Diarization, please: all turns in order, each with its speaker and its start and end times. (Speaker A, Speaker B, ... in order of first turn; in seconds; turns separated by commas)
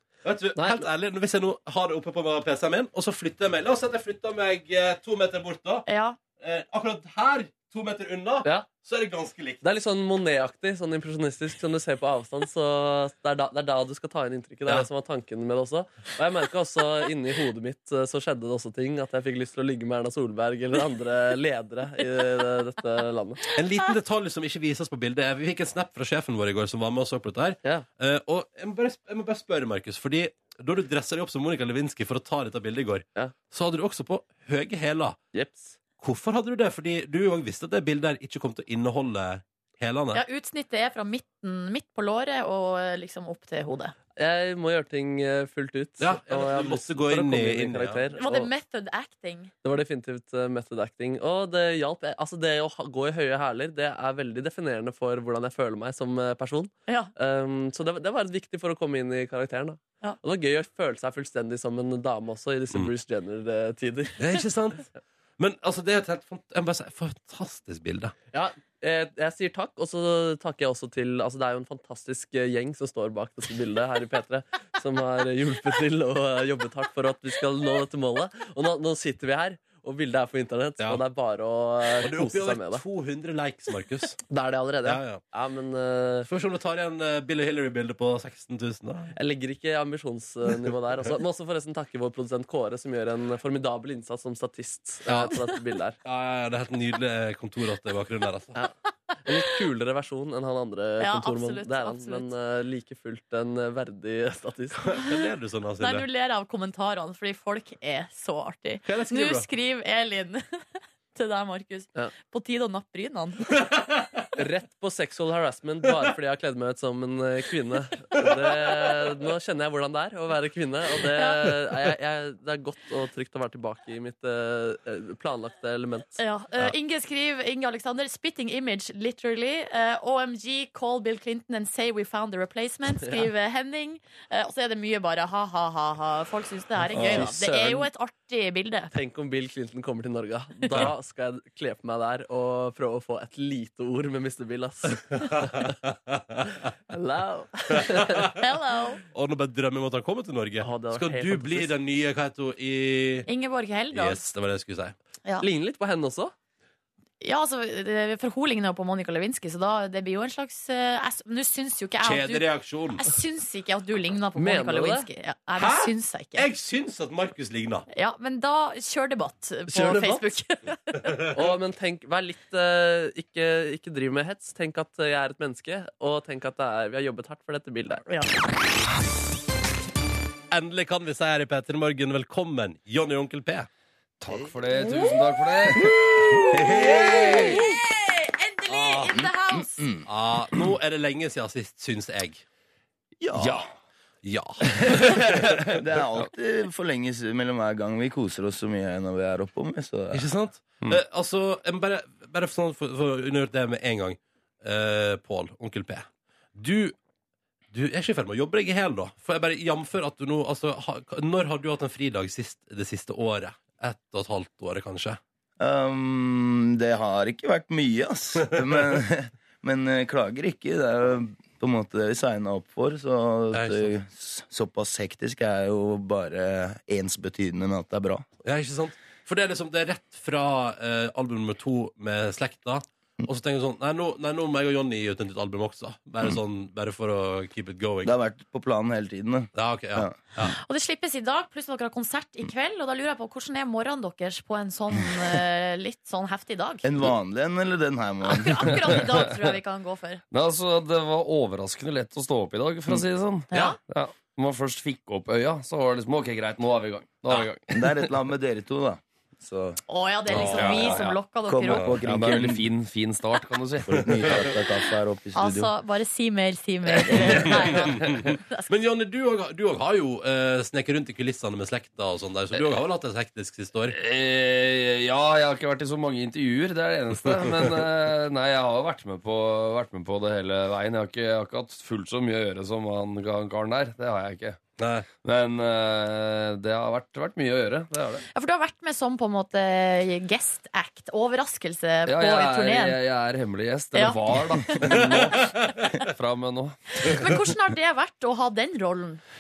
Speaker A: 0.2-5.8, Speaker B: 0.6-0.8, Speaker C: 5.9-6.2, Speaker A: 6.4-9.6, Speaker B: 9.6-23.4, Speaker A: 23.5-35.2, Speaker B: 35.3-35.8, Speaker A: 36.0-40.2, Speaker C: 40.1-43.9, Speaker B: 44.1-48.5, Speaker A: 46.0-48.1, Speaker C: 48.2-49.5, Speaker B: 49.6-64.3, Speaker A: 64.2-68.1, Speaker B: 68.3-82.8, Speaker A: 82.0-84.2, Speaker B: 84.3-86.3, Speaker A: 84.8-85.2, Speaker A: 86.3-89.1, Speaker B: 89.2-96.0, Speaker A: 95.1-95.4, Speaker A: 96.0-98.6, Speaker B: 99.2-104.9, Speaker C: 101.0-102.3, Speaker A: 104.8-106.0, Speaker C: 105.8-110.5, Speaker A: 108.8-109.5, Speaker C: 111.1-113.5, Speaker A: 113.6-114.0, Speaker B: 114.4-126.2, Speaker C: 121.2-121.4, Speaker C: 126.2-138.9, Speaker B: 136.9-137.9, Speaker B: 138.9-145.7, Speaker A: 145.6-146.5, Speaker B: 146.9-148.3, Speaker C: 148.4-149.0, Speaker A: 149.1-153.3, Speaker B: 150.6-151.7, Speaker C: 153.3-154.2, Speaker A: 153.9-154.9, Speaker B: 155.4-156.3, Speaker C: 157.2-162.4, Speaker A: 162.0-163.1, Speaker C: 163.0-166.5, Speaker B: 164.4-165.1, Speaker A: 165.6-167.8, Speaker C: 167.9-171.1, Speaker A: 169.7-170.2, Speaker B: 171.3-178.1, Speaker C: 178.1-178.4, Speaker A: 180.5-183.7, Speaker D: 184.2-186.2, Speaker C: 184.8-185.2, Speaker C: 186.2-189.8, Speaker E: 186.6-187.6, Speaker A: 186.9-187.3, Speaker A: 188.7-189.2, Speaker E: 189.2-190.1, Speaker A: 190.1-192.4, Speaker E: 193.2-193.6, Speaker D: 193.3-193.7, Speaker A: 194.2-195.2, Speaker D: 194.6-195.7, Speaker E: 195.8-200.3, Speaker A: 200.1-206.9, Speaker A: 207.7-215.2, Speaker E: 215.6-228.2, Speaker A: 223.5-223.9, Speaker A: 228.4-238.2, Speaker E: 238.0-240.2, Speaker A: 239.5-240.6, Speaker C: 240.6-246.9, Speaker E: 246.8-248.7, Speaker C: 248.2-250.2, Speaker D: 250.3-258.1, Speaker C: 253.5-253.8, Speaker E: 257.7-259.8, Speaker C: 259.9-261.9, Speaker A: 260.3-261.0, Speaker D: 260.4-261.2, Speaker E: 261.4-262.6, Speaker D: 261.8-264.4, Speaker E: 263.9-265.7, Speaker C: 265.3-268.7, Speaker D: 267.1-268.3, Speaker A: 267.3-273.9, Speaker D: 273.9-284.6, Speaker A: 284.8-285.1, Speaker D: 285.2-288.2, Speaker C: 288.3-293.0, Speaker D: 292.1-297.2, Speaker C: 293.9-294.9, Speaker C: 297.0-299.2